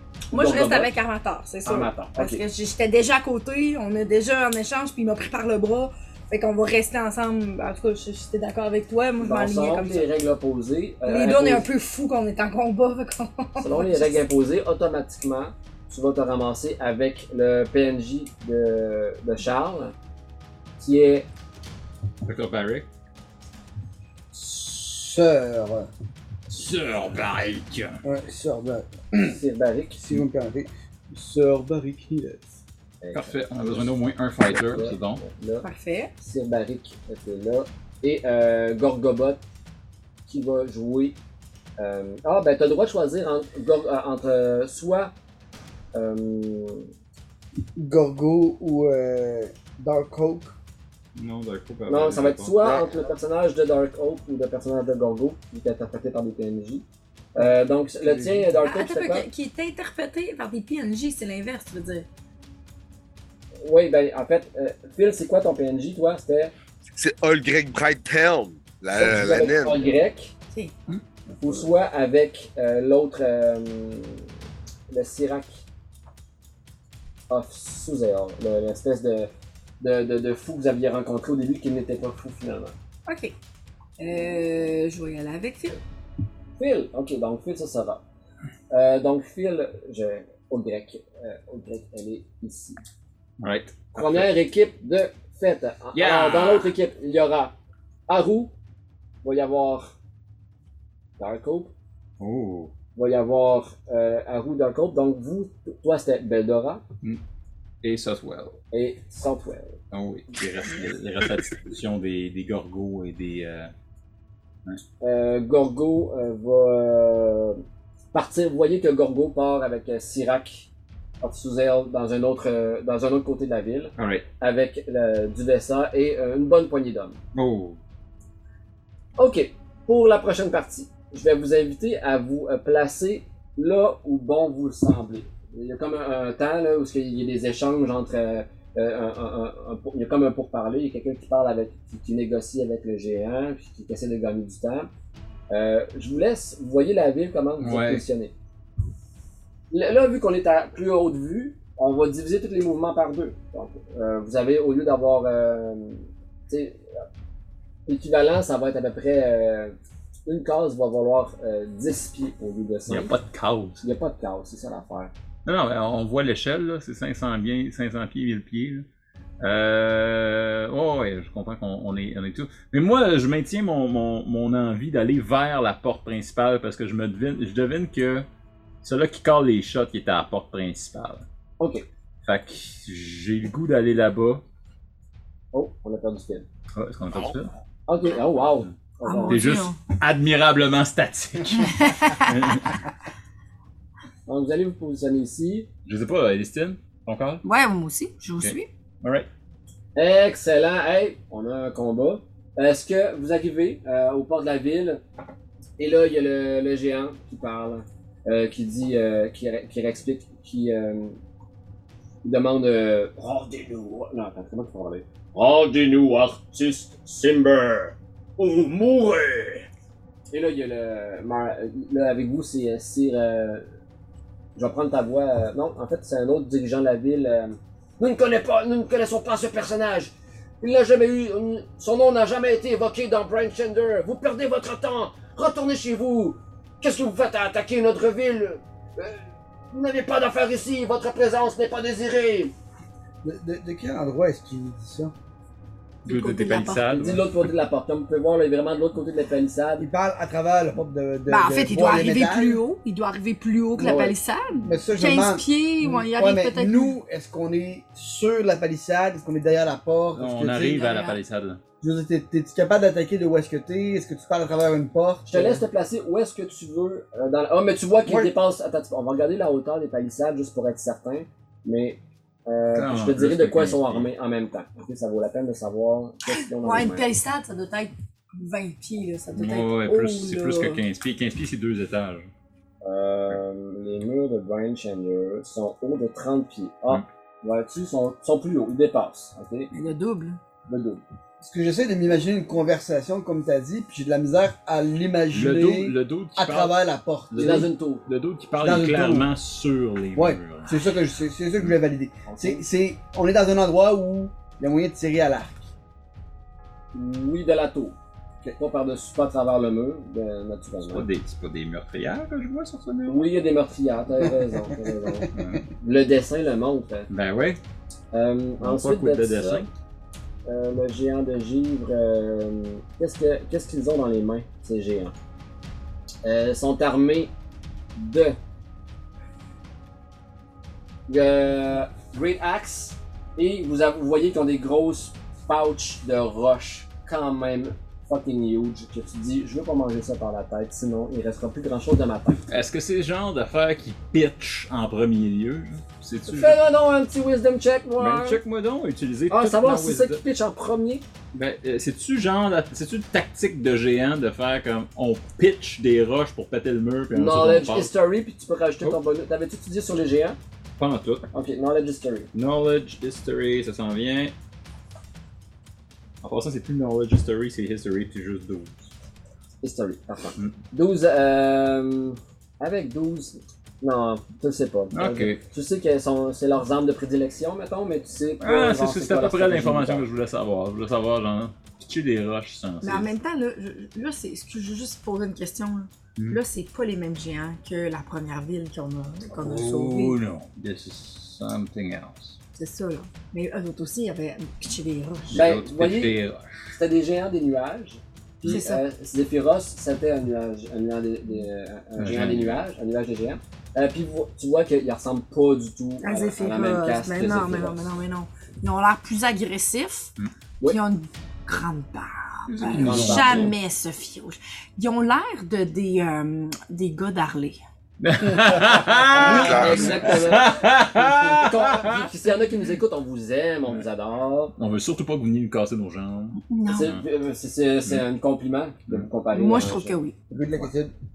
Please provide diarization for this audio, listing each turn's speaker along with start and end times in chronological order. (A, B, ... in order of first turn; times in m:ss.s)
0:00.3-0:10.1 A
0:00.3-0:00.9 B
0:01.6-0:02.4 B
0:09.2-0:11.7 B
0:11.0-0:14.2 A
0:13.6-0:19.9 B
0:20.8-0:21.3 B
0:22.2-0:22.9 C
0:24.3-0:25.9 D
0:26.5-0:28.0 C
0:28.0-0:29.4 D
0:29.2-0:30.0 B
0:30.0-0:32.6 D
0:33.0-0:35.7 B
0:33.1-0:35.2 C
0:35.6-0:36.1 A
0:36.2-0:39.4 B
0:40.3-0:41.2 B
0:41.8-0:45.1 B
0:45.9-0:46.9 B
0:47.8-0:50.6 D
0:51.2-0:52.6 C
0:51.9-0:59.3 B
0:57.4-0:58.6 D
0:58.6-1:02.1 A
1:03.6-1:06.5 B
1:06.9-1:09.9 E
1:08.9-1:10.3 B
1:11.4-1:14.3 B
1:14.9-1:15.6 B
1:17.3-1:22.7 B
1:23.1-1:23.3 A
1:24.0-1:25.8 A
1:26.6-1:28.0 B
1:28.7-1:32.8 B
1:33.4-1:34.3 C
1:33.9-1:37.5 B
1:35.9-1:36.7 C
1:38.1-1:38.5 B
1:39.2-1:39.9 B
1:41.2-1:41.7 B
1:42.2-1:42.7 C
1:42.9-1:46.8 B
1:47.8-1:48.6 C
1:48.7-1:49.8 B
1:49.9-1:53.7 C
1:55.0-1:57.6 B
1:58.1-2:00.7 B
2:01.2-2:07.2 B
2:04.0-2:04.2 C
2:07.3-2:07.8 C
2:09.2-2:24.9 B
2:25.5-2:28.3 B
2:27.6-2:28.0 C
2:29.7-2:36.8 B
2:37.9-2:43.1 B
2:42.9-2:43.8 C
2:43.8-2:45.1 B
2:45.4-2:48.8 C
2:49.4-2:58.2 C
2:58.8-3:01.2 C
3:01.6-3:01.8 B
3:02.2-3:04.4 C
3:05.5-3:06.4 B
3:06.7-3:07.5 C
3:07.1-3:07.4 E
3:07.9-3:09.4 B
3:09.0-3:09.8 A
3:09.3-3:12.8 C
3:11.6-3:12.3 A
3:14.3-3:15.7 B
3:15.8-3:17.4 C
3:17.4-3:18.7 A
3:18.4-3:19.3 C
3:20.0-3:25.0 B
3:25.8-3:31.2 B
3:32.2-3:39.7 B
3:40.3-3:43.7 B
3:44.6-4:02.5 B
4:03.2-4:05.1 D
4:06.0-4:06.9 A
4:06.0-4:07.3 C
4:06.9-4:09.9 B
4:09.8-4:12.6 D
4:11.3-4:16.9 A
4:13.8-4:14.1 B
4:14.6-4:20.8 D
4:20.2-4:21.6 C
4:20.7-4:21.2 A
4:21.8-4:25.6 D
4:25.3-4:37.1 B
4:28.1-4:28.3 D
4:32.7-4:34.1 C
4:36.4-4:40.8 A
4:39.3-4:42.3 C
4:42.8-4:49.7 B
4:49.7-4:50.4 A
4:50.7-4:51.0 B
4:51.4-4:57.7 D
4:55.3-5:00.7 C
4:57.4-4:58.0 B
4:58.6-4:59.3 D
5:00.1-5:05.7 D
5:02.2-5:02.6 B
5:06.9-5:11.1 B
5:10.8-5:13.2 C
5:13.1-5:15.3 B
5:14.5-5:15.5 D
5:15.3-5:15.6 C
5:15.8-5:17.1 B
5:17.1-5:17.6 C
5:18.1-5:19.6 B
5:18.6-5:19.7 C
5:20.4-5:25.1 B
5:26.2-5:27.3 B
5:28.0-5:28.4 B
5:31.1-5:42.4 B
5:42.5-5:46.6 C
5:46.3-5:48.4 B
5:48.0-5:50.2 C
5:49.3-5:51.0 B
5:51.3-5:57.9 C
5:57.1-6:00.4 B
6:00.8-6:01.3 C
6:01.3-6:02.3 B
6:02.3-6:04.3 C
6:06.2-6:08.9 C
6:09.6-6:20.1 B
6:14.9-6:15.4 C
6:18.4-6:23.1 C
6:22.8-6:30.2 A
6:29.3-6:32.4 C
6:32.6-6:35.4 A
6:35.3-6:36.6 C
6:35.3-6:36.2 B
6:36.7-6:47.9 B
6:38.4-6:38.8 A
6:42.0-6:42.6 C
6:46.0-6:50.1 A
6:50.6-6:57.6 A
6:52.5-6:53.5 C
6:52.7-6:53.5 B
6:58.0-7:02.1 C
6:58.6-7:00.6 B
6:59.2-7:00.1 E
7:01.3-7:04.5 B
7:04.6-7:07.0 C
7:06.4-7:06.9 A
7:06.6-7:10.0 B
7:09.3-7:10.1 A
7:10.3-7:10.9 D